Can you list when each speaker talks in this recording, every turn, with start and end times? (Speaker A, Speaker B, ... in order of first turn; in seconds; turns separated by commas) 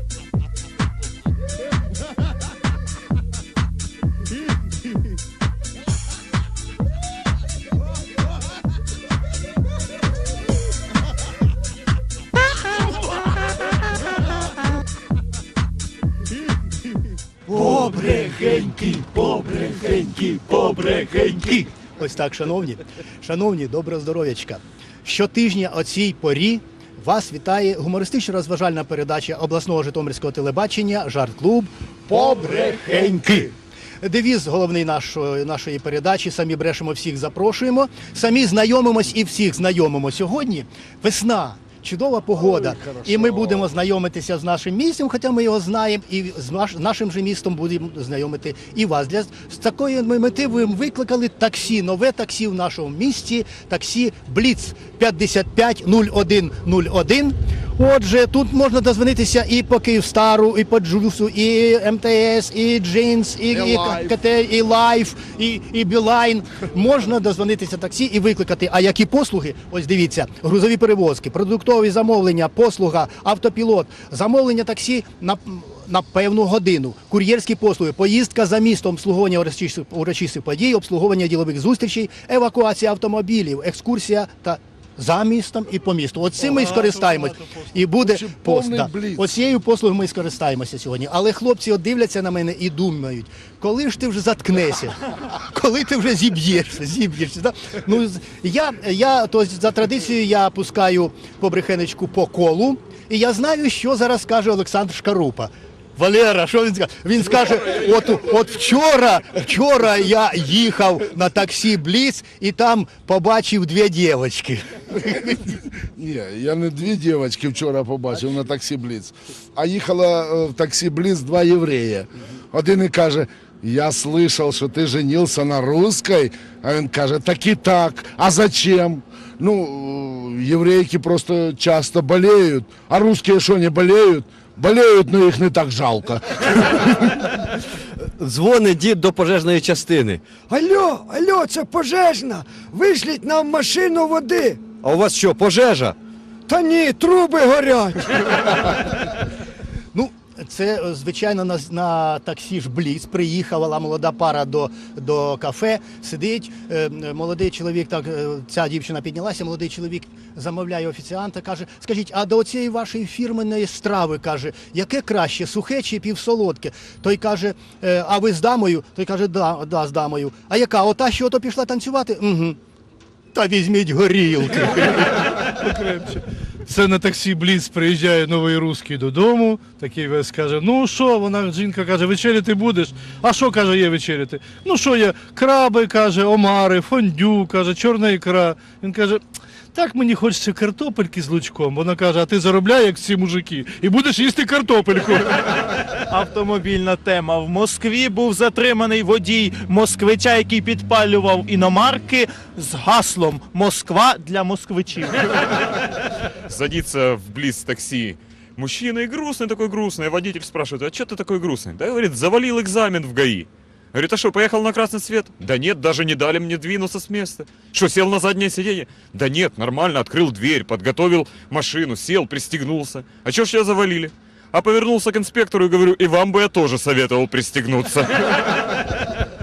Speaker A: 17.5-33.5, Speaker A: 34.0-115.5, Speaker B: 42.7-43.6, Speaker B: 63.5-64.2, Speaker C: 86.4-87.8, Speaker B: 88.0-89.3, Speaker B: 115.8-137.2, Speaker D: 138.2-140.3, Speaker E: 140.5-144.8, Speaker D: 144.8-145.9, Speaker E: 146.5-148.2, Speaker A: 149.9-172.6, Speaker A: 173.3-175.2, Speaker C: 175.4-195.4, Speaker F: 196.1-205.2, Speaker G: 206.5-228.5